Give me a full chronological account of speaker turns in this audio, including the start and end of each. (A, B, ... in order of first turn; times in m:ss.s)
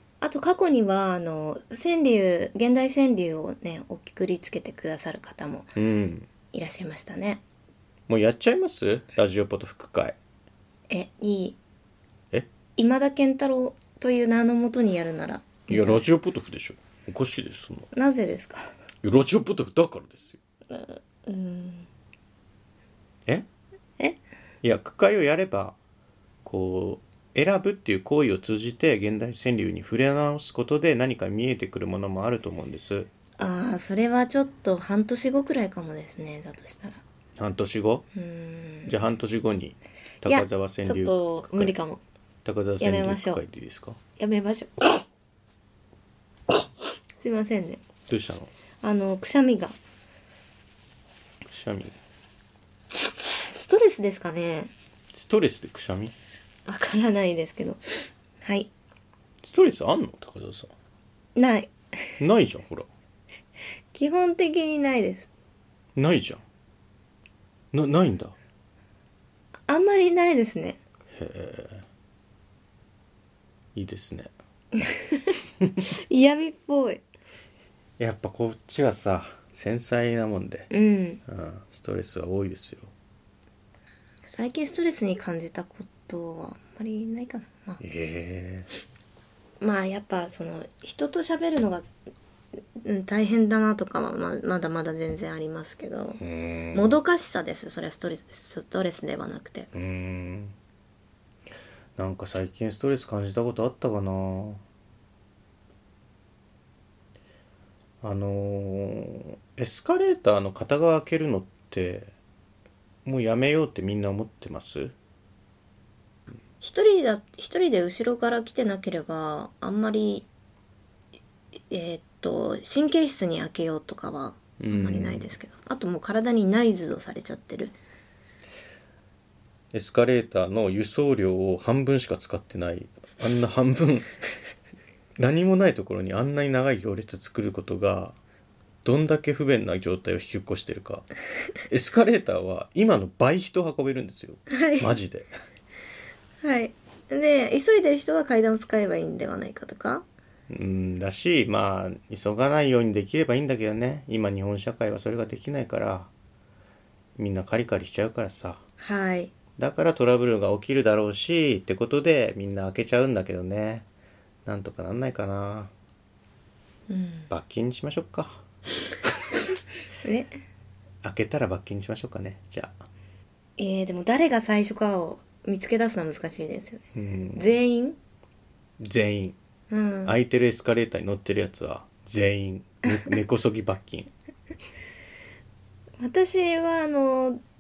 0:00.2-0:05.8 A
0:05.8-0:06.3 B
0:06.5-0:07.4 A
0:08.1-0:10.2 B
0:10.9-0:11.6 A
0:12.8-0:16.0 A
0:15.7-0:17.9 B
0:17.9-0:18.7 A
0:19.0-0:20.4 B
0:20.7-0:21.9 A
0:24.6-0:25.8 B
0:26.4-0:33.1 B
0:33.4-0:37.0 A
0:37.4-0:38.0 B
0:38.2-0:39.0 A
0:38.9-0:41.8 B
0:40.2-0:42.0 A
0:42.4-0:44.0 B
0:42.8-0:43.4 A
0:44.2-0:45.0 A
0:47.2-0:47.8 A
0:48.1-0:48.5 B
0:48.8-0:49.8 A
0:51.5-0:52.0 B
0:53.3-0:54.7 A
0:55.1-0:56.1 B
0:56.7-0:58.7 A
0:59.4-1:00.7 B
1:01.4-1:02.1 A
1:02.2-1:02.9 B
1:03.9-1:05.3 A
1:06.0-1:06.4 B
1:07.7-1:08.4 B
1:09.7-1:10.8 A
1:11.1-1:11.8 B
1:13.8-1:14.3 B
1:14.8-1:17.0 A
1:18.0-1:20.7 B
1:20.7-1:21.2 A
1:21.3-1:22.9 B
1:24.3-1:27.8 A
1:27.8-1:28.7 B
1:29.6-1:31.9 A
1:32.8-1:36.2 A
1:36.2-1:37.0 B
1:36.7-1:39.7 A
1:39.7-1:40.5 B
1:42.0-1:44.6 B
1:48.0-1:52.1 B
1:53.0-1:54.9 B
1:56.6-2:00.3 A
2:01.7-2:07.8 A
2:04.6-2:05.3 B
2:09.7-2:14.2 B
2:15.2-2:18.2 B
2:18.8-2:21.1 B
2:21.7-2:25.3 B
2:24.5-2:24.9 A
2:26.4-2:30.0 A
2:30.5-2:36.1 B
2:37.2-2:38.6 B
2:38.8-2:39.3 A
2:39.6-2:43.8 B
2:44.4-2:45.7 B
2:46.9-2:47.3 A
2:47.3-2:48.4 B
2:50.0-2:50.4 A
2:51.0-2:52.8 B
2:53.6-2:56.8 A
2:57.0-2:57.5 B
2:57.4-2:58.0 A
2:58.8-2:59.4 B
2:59.7-3:00.2 A
3:00.1-3:04.1 B
3:06.0-3:07.4 A